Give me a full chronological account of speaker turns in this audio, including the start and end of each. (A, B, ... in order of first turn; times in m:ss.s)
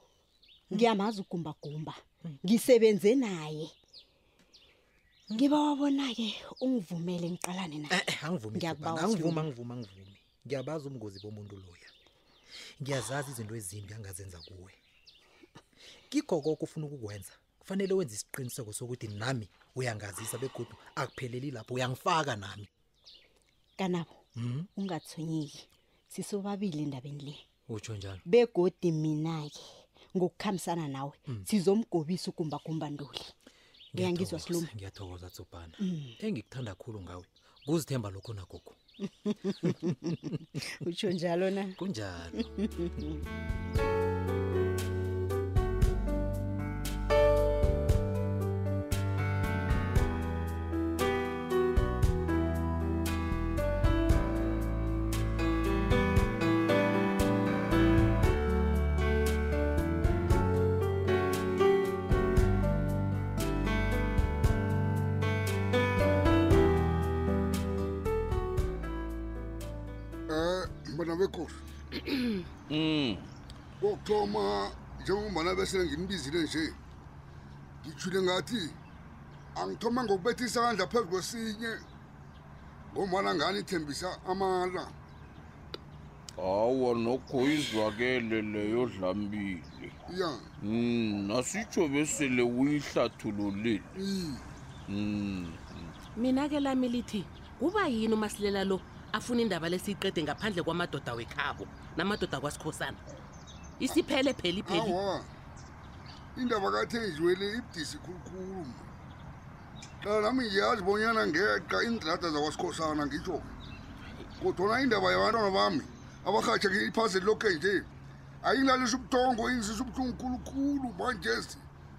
0:00.7-0:03.7 A
0:05.4-0:08.0 A
0:07.9-0:11.9 B
0:08.5-0:09.5 A
0:12.8-0:14.8 B
0:16.1-0:22.7 B
0:23.8-0:24.2 A
0:24.4-0:24.7 B
0:24.7-0:27.4 A
0:27.7-0:28.2 B
0:28.3-0:33.3 A
0:33.9-0:38.8 B
0:34.0-0:34.7 A
0:35.8-0:36.1 A
0:39.3-0:40.2 A
0:40.8-0:41.8 A
0:41.8-0:42.5 B
0:42.5-0:43.0 A
1:10.3-1:11.6 C
1:12.7-1:13.3 D
1:13.8-1:16.8 C
1:17.8-1:18.8 C
1:19.6-1:21.8 C
1:22.9-1:24.9 C
1:26.4-1:30.0 D
1:30.1-1:30.4 C
1:30.6-1:33.9 D
1:34.0-1:34.4 C
1:34.9-1:35.9 D
1:36.2-1:43.0 E
1:43.8-1:45.0 E
1:44.6-1:45.3 C
1:46.4-1:48.9 C
1:50.0-1:53.5 C
1:54.4-1:57.9 C
1:58.4-2:01.6 C